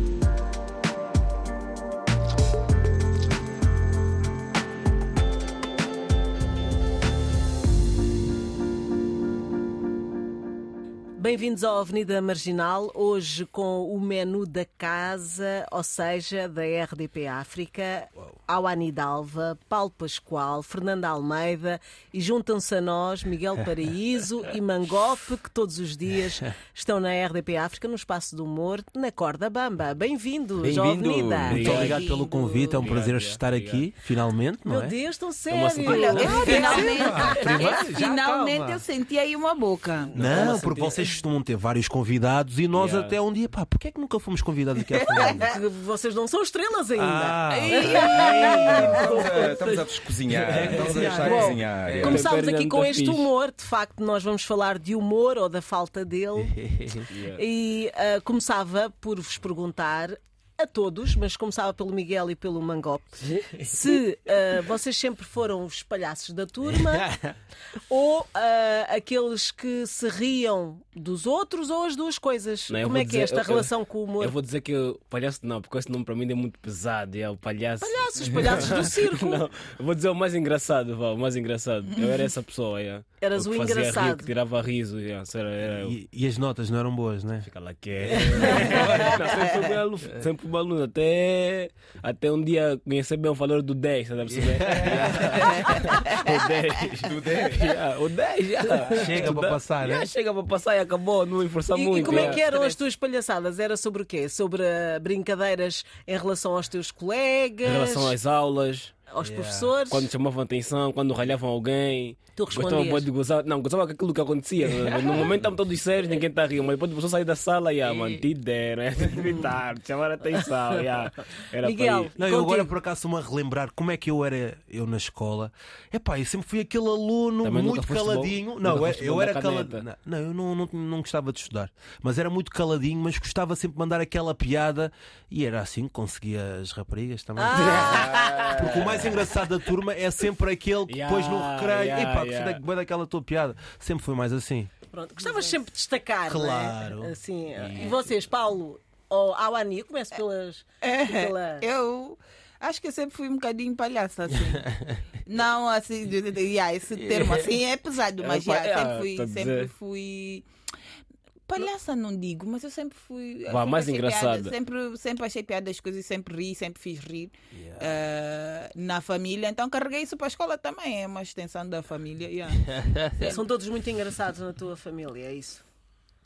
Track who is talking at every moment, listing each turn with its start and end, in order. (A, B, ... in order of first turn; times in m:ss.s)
0:11.2-0:31.6 A
0:30.6-0:31.9 B
0:31.5-0:35.0 C
0:31.5-0:32.0 D
0:31.7-0:32.9 E
0:32.7-0:33.9 D
0:34.6-0:37.5 A
0:35.5-0:37.7 D
0:35.8-0:40.2 E
0:36.4-0:38.8 C
0:40.1-0:41.1 D
0:40.1-0:45.5 C
0:42.7-0:43.2 D
0:44.9-0:45.6 E
0:45.2-0:49.5 A
0:46.9-0:49.0 C
0:47.5-0:49.3 E
0:48.1-0:52.3 B
0:49.0-0:49.8 D
0:50.3-0:51.9 C
0:50.5-0:51.0 D
0:51.0-0:56.6 A
0:51.8-0:53.3 D
0:56.5-0:57.1 C
0:57.1-0:57.4 D
0:57.1-1:07.1 A
1:06.8-1:07.3 C
1:07.7-1:14.4 A
1:12.7-1:26.0 D
1:17.8-1:19.4 A
1:23.2-1:24.3 A
1:25.6-1:27.5 C
1:27.4-1:42.8 D
1:28.0-1:29.3 C
1:34.3-1:35.9 C
1:34.7-1:35.2 B
1:36.9-1:37.7 B
1:38.9-1:40.1 C
1:41.7-1:48.1 A
1:47.6-1:48.9 D
1:49.1-1:50.1 A
1:49.2-1:49.7 C
1:49.9-2:02.1 D
1:52.4-1:53.1 A
2:01.0-2:02.7 A
2:02.2-2:24.7 C
2:07.4-2:09.8 D
2:17.4-2:18.2 A
2:17.7-2:19.1 B
2:17.8-2:19.0 D
2:20.9-2:22.6 D
2:24.9-2:31.7 A
2:26.3-2:28.1 C
2:30.8-2:34.7 E
2:34.7-2:35.0 C
2:35.2-2:40.4 E
2:38.2-2:39.7 D
2:41.5-2:53.4 E
2:43.5-2:44.5 D
2:47.5-2:48.0 C
2:52.8-2:53.3 C
2:53.2-2:55.6 A